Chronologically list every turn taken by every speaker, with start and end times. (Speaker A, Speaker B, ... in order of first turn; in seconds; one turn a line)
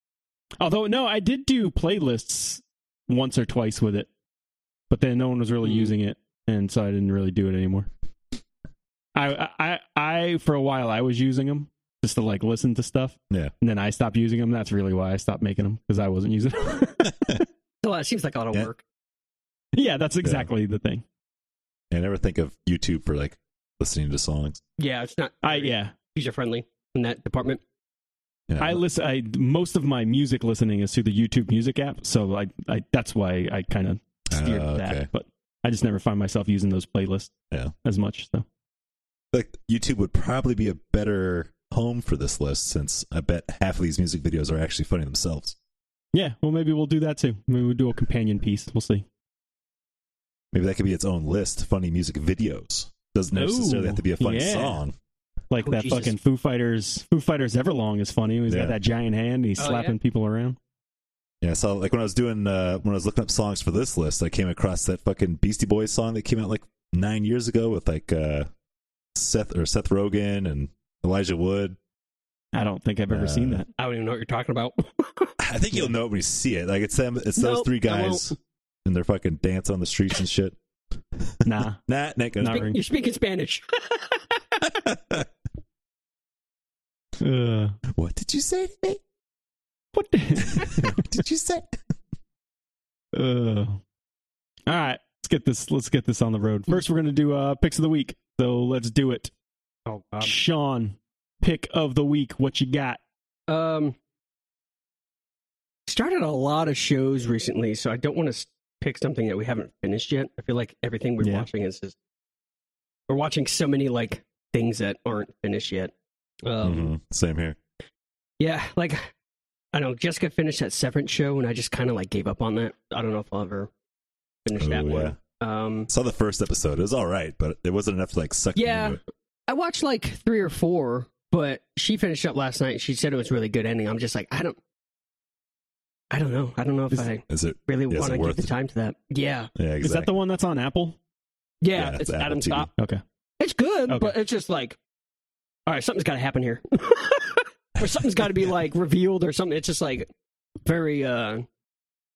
Speaker A: 0.6-4.1
Speaker A: 4.9-7.9
Speaker B: 5.6-5.9
Speaker A: 9.1-17.1
Speaker B: 17.8-18.8
Speaker A: 19.7-21.0
Speaker C: 21.9-24.6
Speaker B: 24.8-27.6
Speaker A: 25.4-25.9
Speaker C: 28.5-28.8
Speaker A: 28.6-37.3
Speaker C: 34.3-35.1
Speaker A: 37.8-38.5
Speaker C: 39.3-45.5
Speaker A: 46.1-49.0
Speaker C: 50.5-54.9
Speaker A: 53.3-54.8
Speaker A: 55.5-60.6
Speaker B: 55.6-56.1
Speaker C: 58.5-58.8
Speaker B: 59.6-60.0
Speaker C: 61.4-68.5
Speaker C: 69.1-71.8
Speaker A: 72.5-73.7
Speaker C: 73.1-73.6
Speaker B: 73.8-75.4
Speaker C: 75.4-80.5
Speaker B: 77.4-78.3
Speaker C: 81.2-82.7
Speaker A: 81.4-81.8
Speaker A: 82.4-82.8
Speaker B: 82.4-84.6
Speaker C: 84.8-85.3
Speaker A: 87.2-87.8
Speaker C: 87.9-89.0
Speaker A: 89.9-91.0
Speaker C: 90.4-91.8
Speaker A: 93.1-93.8
Speaker A: 94.7-99.3
Speaker B: 99.8-100.3
Speaker A: 100.2-103.0
Speaker B: 103.5-103.9
Speaker B: 105.9-111.9
Speaker A: 111.2-111.5
Speaker B: 113.1-115.9
Speaker B: 116.4-116.9
Speaker C: 116.6-117.6
Speaker B: 118.4-119.1
Speaker B: 119.7-123.7
Speaker B: 124.4-125.9
Speaker C: 124.5-125.2
Speaker C: 125.9-129.0
Speaker B: 128.5-134.6
Speaker B: 136.1-139.5
Speaker C: 137.3-138.5
Speaker C: 139.5-140.1
Speaker A: 139.8-141.0
Speaker B: 141.6-142.7
Speaker C: 141.7-142.7
Speaker A: 142.8-143.0
Speaker B: 143.4-144.8
Speaker A: 143.9-144.1
Speaker B: 145.7-150.1
Speaker B: 150.6-151.4